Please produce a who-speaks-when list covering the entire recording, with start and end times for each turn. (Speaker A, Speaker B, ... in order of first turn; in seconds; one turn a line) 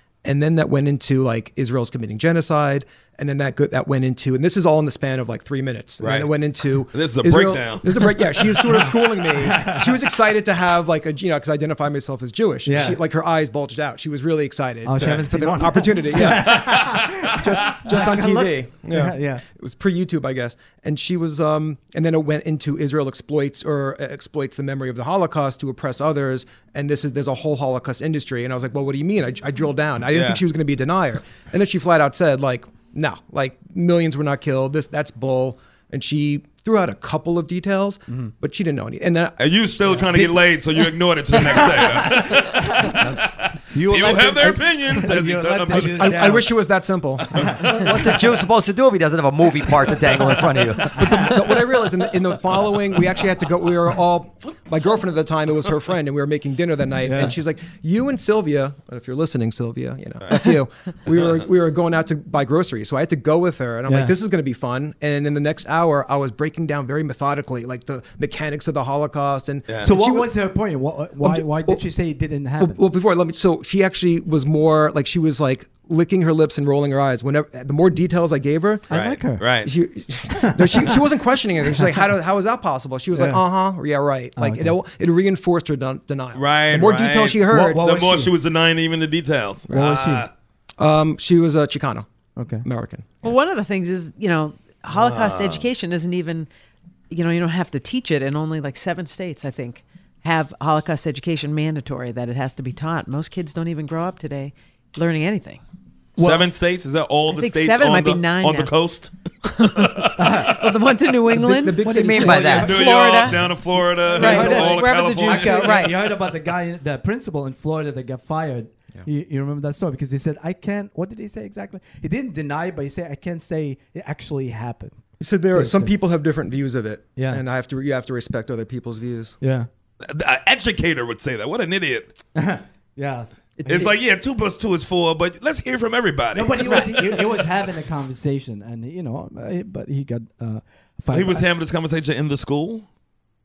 Speaker A: 0.2-40.0
Speaker B: 6.0-6.3
Speaker B: 6.9-8.4
Speaker C: 9.4-10.0
Speaker C: 12.6-13.0
Speaker C: 14.8-19.4
Speaker B: 16.2-17.4
Speaker B: 30.1-30.4
Speaker B: 39.4-46.4
Speaker C: 41.5-43.1
Speaker A: 42.9-43.3
Speaker C: 43.7-46.5
Speaker A: 45.8-47.7
Speaker B: 47.3-48.2
Speaker C: 47.4-47.8
Speaker D: 47.6-51.0
Speaker A: 50.9-70.3
Speaker C: 51.0-51.6
Speaker C: 57.0-57.4
Speaker C: 63.9-64.1
Speaker C: 69.8-72.8
Speaker A: 71.2-71.8
Speaker A: 72.6-78.8
Speaker C: 78.9-79.5
Speaker B: 78.9-79.7
Speaker A: 79.6-87.8
Speaker C: 80.3-81.0
Speaker C: 83.1-83.4
Speaker C: 84.4-84.8
Speaker B: 86.3-90.3
Speaker C: 87.5-88.3
Speaker C: 89.7-90.3
Speaker A: 90.8-92.0
Speaker C: 92.4-92.6
Speaker A: 92.6-93.3
Speaker E: 93.2-96.5
Speaker B: 94.9-95.7
Speaker E: 97.1-105.6
Speaker C: 106.2-106.5
Speaker B: 106.2-110.8
Speaker E: 107.3-108.7
Speaker E: 109.5-113.4
Speaker C: 110.2-110.7
Speaker C: 111.3-113.5
Speaker A: 111.5-112.8
Speaker D: 111.8-112.8
Speaker B: 112.5-115.9
Speaker C: 114.1-125.9
Speaker E: 114.1-116.0
Speaker A: 114.2-114.7
Speaker A: 125.2-129.4
Speaker C: 127.2-127.4
Speaker C: 129.4-129.7
Speaker B: 130.0-132.1
Speaker C: 132.3-133.8
Speaker A: 133.6-133.9
Speaker B: 133.7-137.2
Speaker C: 136.3-141.4
Speaker B: 141.1-142.8